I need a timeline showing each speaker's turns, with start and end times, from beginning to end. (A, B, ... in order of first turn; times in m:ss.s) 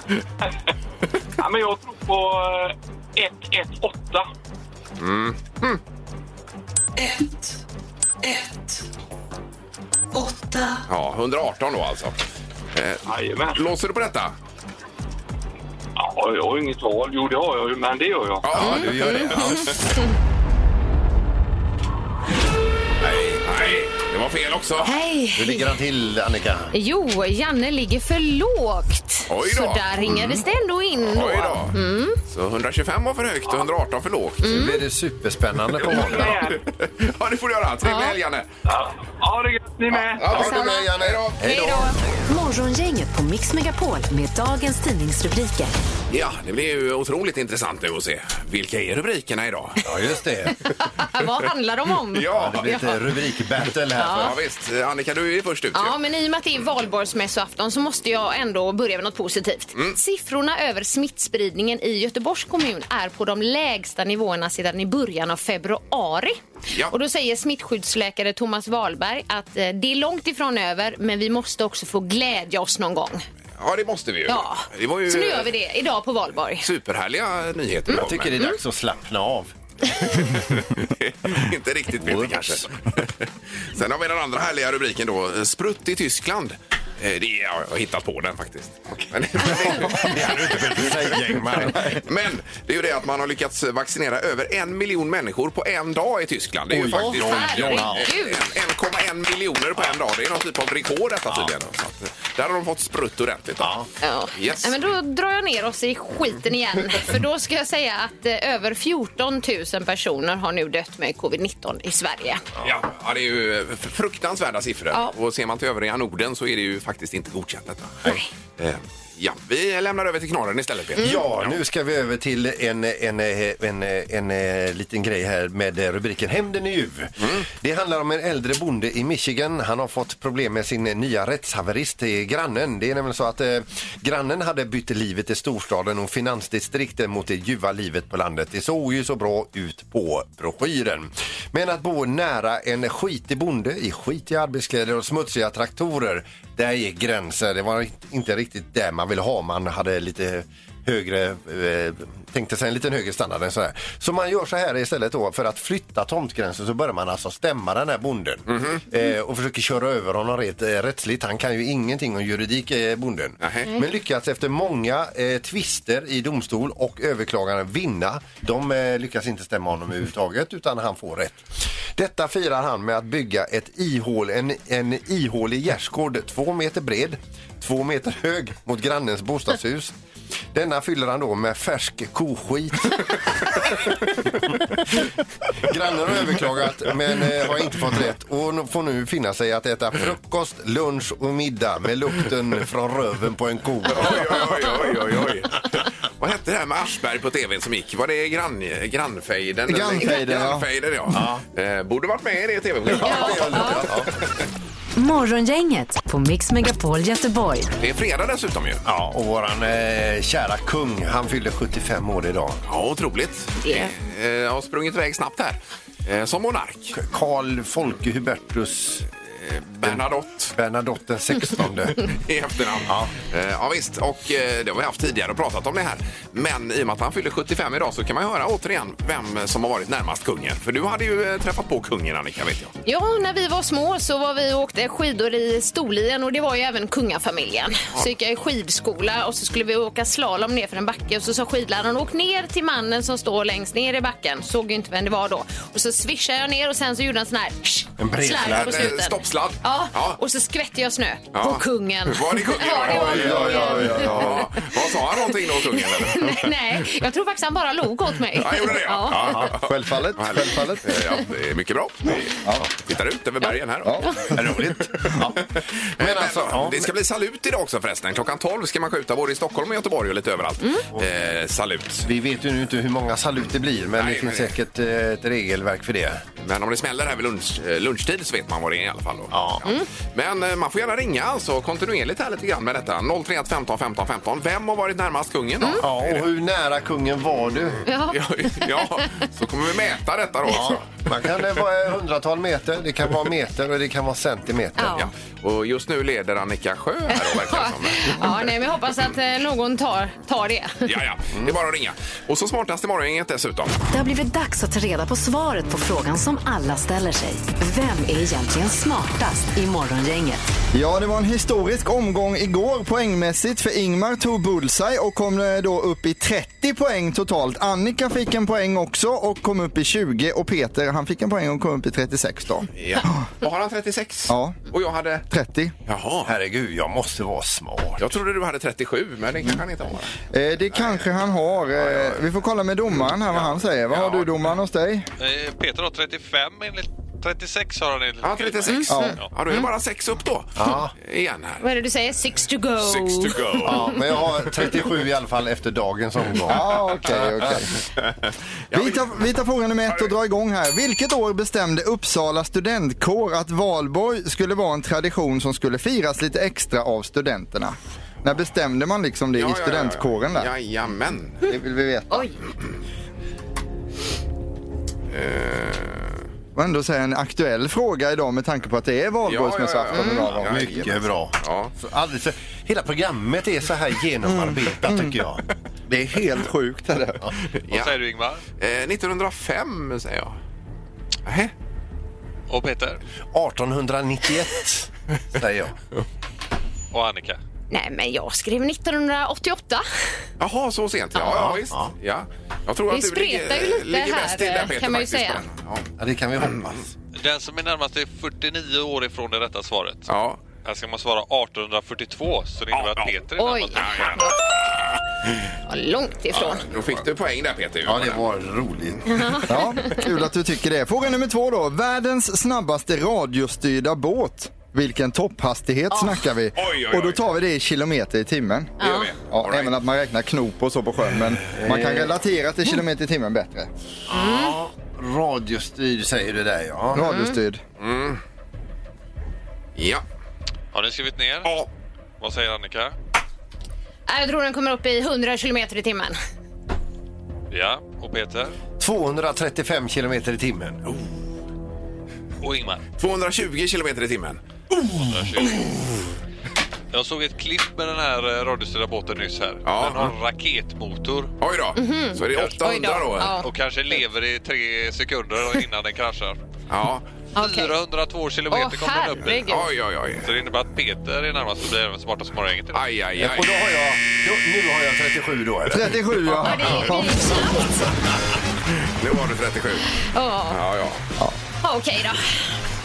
0:01.4-0:04.2 A
0:05.0-0:05.8 B
0:07.0-0:07.6 C
0:08.2-0:08.8 C
0:10.1-0:10.8 C
0:10.9-0:12.2 B
0:12.7-0:13.0 B
0:13.1-0:13.6 A
0:13.5-0:14.3 B
0:16.0-0:18.4 A
0:18.4-0:19.7 B
0:18.5-0:19.8 D
0:18.6-0:19.7 E
0:23.0-0:23.4 D
0:23.4-0:24.9 B
0:24.8-0:25.7 E
0:25.4-0:26.7 D
0:26.7-0:32.2 E
0:29.3-0:30.4 B
0:31.0-0:31.8 B
0:32.3-0:34.7 B
0:34.4-0:34.8 E
0:34.4-0:36.4 D
0:35.8-0:38.5 B
0:35.8-0:36.6 A
0:37.8-0:38.2 E
0:38.7-0:40.3 A
0:40.2-0:41.7 B
0:40.2-0:41.9 D
0:40.3-0:40.8 E
0:41.4-0:41.9 E
0:42.3-0:45.7 F
0:46.1-0:49.8 B
0:49.8-0:50.6 D
0:50.6-0:52.9 E
0:52.1-0:52.9 B
0:52.3-0:54.4 D
0:54.0-0:54.3 E
0:54.1-0:56.0 B
0:55.7-1:13.2 E
1:13.6-1:15.5 B
1:14.3-1:16.6 E
1:16.6-1:18.4 B
1:17.9-1:18.6 E
1:17.9-1:19.5 D
1:20.1-1:30.9 B
1:22.0-1:22.6 D
1:29.4-1:32.0 D
1:31.5-1:43.8 B
1:36.7-1:38.0 D
1:36.9-1:38.4 E
1:43.6-1:43.8 D
1:44.0-1:52.4 E
1:44.3-1:44.7 B
1:52.6-1:58.0 B
1:58.0-1:58.3 E
1:58.6-2:01.6 B
2:01.0-2:59.9 D
2:38.5-2:38.8 B
2:43.4-2:43.7 B
3:00.5-3:03.9 D
3:04.5-3:05.0 D
3:05.6-3:14.8 D
3:13.9-3:24.0 B
3:19.7-3:20.6 G
3:21.1-3:21.4 D
3:22.9-3:24.1 D
3:23.0-3:23.8 E
3:25.0-3:27.7 F
3:27.8-3:28.8 B
3:28.8-3:32.6 D
3:32.7-3:36.9 B
3:33.6-3:33.9 E
3:36.9-3:39.1 D
3:39.2-3:40.5 B
3:40.5-3:42.1 D
3:42.0-3:52.7 B
3:42.9-3:43.1 D
3:52.8-4:19.4 E
4:08.0-4:09.0 D
4:08.4-4:10.2 B
4:11.3-4:16.5 B
4:12.8-4:14.3 D
4:13.0-4:14.4 G
4:18.4-4:24.3 B
4:19.1-4:19.5 D
4:19.5-4:20.9 G
4:23.8-4:24.1 G
4:24.0-4:24.3 E
4:24.3-4:26.9 D
4:26.0-4:32.0 B
4:32.0-4:36.2 D
4:34.0-4:34.5 B
4:36.4-4:46.2 B
4:39.3-4:39.6 D
4:45.8-4:47.8 D
4:47.8-4:49.0 E
4:48.1-4:51.0 B
4:50.5-4:55.0 D
4:54.8-4:55.1 E
4:54.9-4:58.3 B
4:57.1-5:00.8 E
5:00.8-5:03.8 B
5:03.9-5:10.4 F
5:10.7-5:23.2 G
5:22.8-5:25.2 B
5:24.3-5:24.6 G
5:25.3-5:25.7 G
5:25.9-5:26.3 B
5:26.2-5:28.0 D
5:28.0-5:30.1 B
5:30.3-5:35.1 G
5:30.7-5:31.1 B
5:31.8-5:32.2 B
5:33.3-5:34.3 B
5:35.2-5:39.3 H
5:38.2-5:41.6 B
5:38.7-5:39.7 E
5:38.9-5:39.2 G
5:40.6-5:40.9 D
5:41.6-5:43.9 E
5:42.8-5:43.9 B
5:43.6-5:47.6 D
5:46.5-5:47.7 G
5:48.7-5:49.0 B
5:48.7-6:00.5 G
5:59.4-6:01.4 B
6:01.4-6:02.3 G
6:05.1-6:06.2 B
6:06.5-6:10.9 G
6:09.2-6:11.7 B
6:09.9-6:10.3 E
6:10.4-6:16.5 D
6:14.2-6:15.2 G
6:16.0-6:17.2 G
6:17.7-6:18.0 B
6:17.7-6:18.4 H
6:18.6-6:20.4 B
6:21.2-6:21.5 B
6:22.5-6:23.0 H
6:23.3-6:25.7 D
6:26.9-6:27.4 H
6:27.7-6:29.8 E
6:30.4-6:35.8 B
6:31.2-6:31.9 D
6:32.9-6:35.4 E
6:36.0-6:36.9 D
6:37.2-6:40.1 H
6:40.1-6:40.4 B
6:40.6-6:44.0 H
6:42.7-6:43.1 B
6:43.4-6:44.3 E
6:43.8-6:44.3 B
6:45.7-6:46.6 E
6:46.3-6:48.2 B
6:47.8-6:49.4 D
6:49.1-6:50.0 E
6:49.5-6:58.8 G
6:56.6-6:57.2 B
6:58.8-6:59.1 E
6:58.8-6:59.7 B
6:59.3-7:03.7 G
7:01.6-7:02.1 D
7:04.1-7:07.0 D
7:04.1-7:04.6 E
7:06.9-7:07.6 G
7:07.0-7:07.4 E
7:07.8-7:08.2 B
7:09.8-7:10.0 B
7:10.7-7:11.5 H
7:12.2-7:12.9 H
7:14.1-7:16.2 E
7:17.5-7:18.6 H
7:18.8-7:20.8 D
7:22.4-7:22.8 H
7:23.0-7:24.4 B
7:24.8-7:25.7 H
7:26.9-7:31.3 H
7:29.6-7:30.1 B
7:31.4-7:33.3 B
7:31.8-7:33.5 E
7:33.3-7:36.4 H
7:36.7-7:37.0 B
7:37.4-7:37.7 E
7:37.4-7:39.6 H
7:38.5-7:39.6 E
7:39.5-7:40.3 B
7:40.2-7:42.8 H
7:42.7-7:43.5 B
7:43.2-7:46.0 D
7:45.7-7:47.4 G
7:46.4-7:47.9 E
7:48.8-7:49.9 B
7:50.0-7:50.6 E
7:50.5-7:51.0 B
7:51.6-7:52.6 E